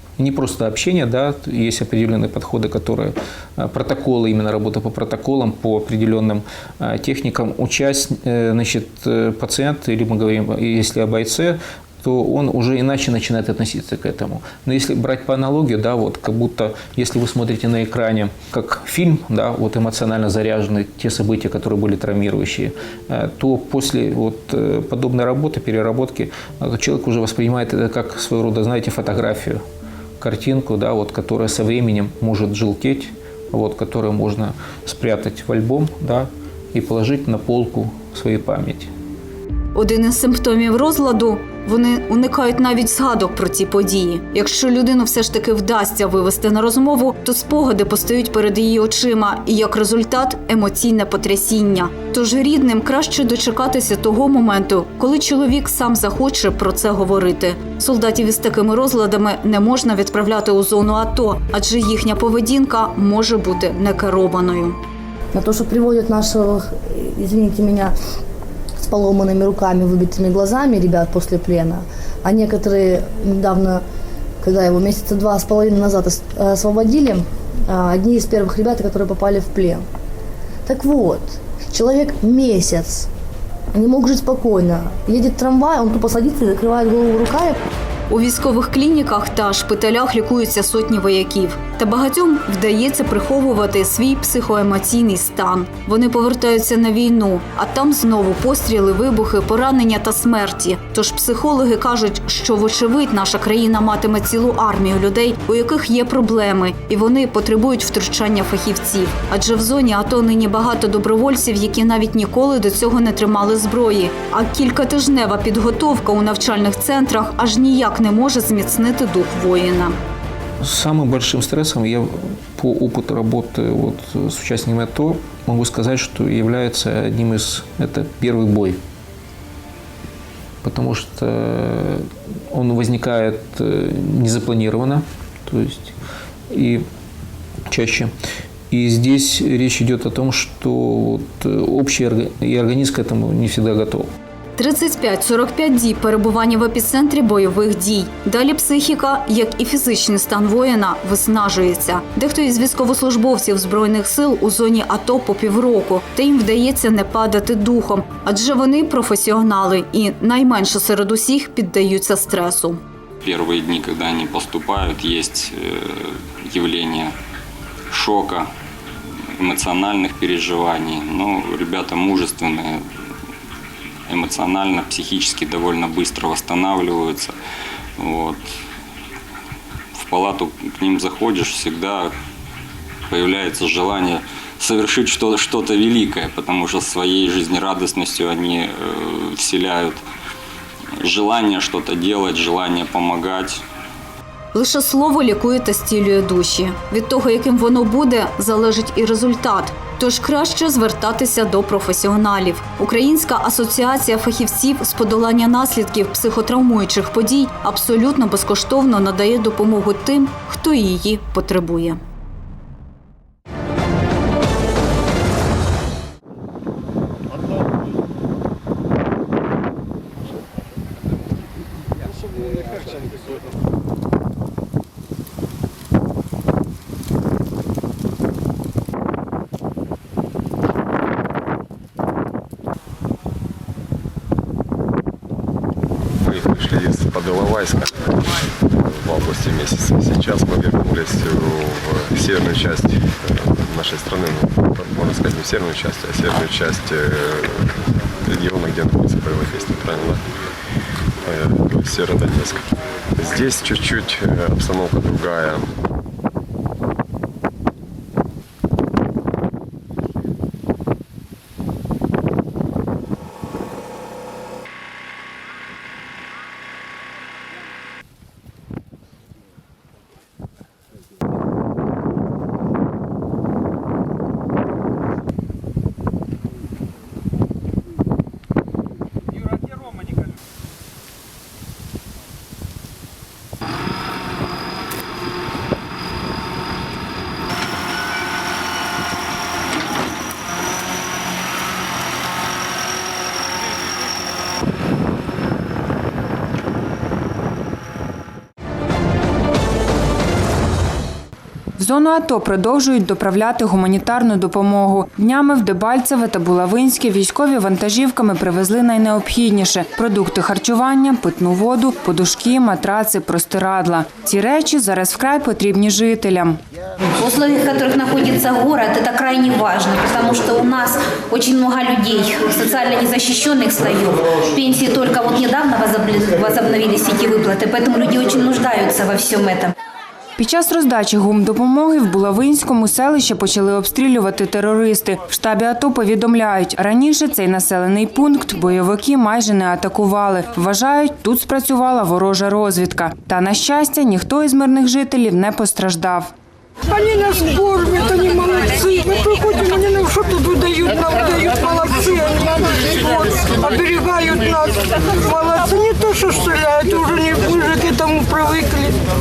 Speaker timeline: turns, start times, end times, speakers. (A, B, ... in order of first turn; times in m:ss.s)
0:00.2-0:29.6 A
0:30.2-0:38.9 A
0:39.7-1:04.8 B
1:05.3-1:07.9 C
1:08.8-1:13.8 C
1:14.4-1:19.8 C
1:20.6-1:23.1 C
1:23.7-1:27.6 C
1:28.1-2:00.0 B
2:00.6-2:08.8 A
2:10.6-2:15.9 A
2:16.5-2:16.8 A
2:17.7-2:18.1 A
2:18.7-2:24.1 A
2:24.6-2:42.8 B
2:43.2-2:47.1 D
2:47.9-2:48.5 D
2:49.4-2:52.8 D
2:54.1-2:57.3 D
2:58.0-2:58.4 D
2:59.9-3:02.1 D
3:03.1-3:10.0 D
3:11.0-3:13.6 D
3:14.5-3:32.0 B
3:56.2-4:10.3 E
4:11.2-4:15.7 E
5:01.8-5:16.6 F
5:17.2-5:29.7 G
5:30.4-5:46.3 F
5:46.9-5:59.0 H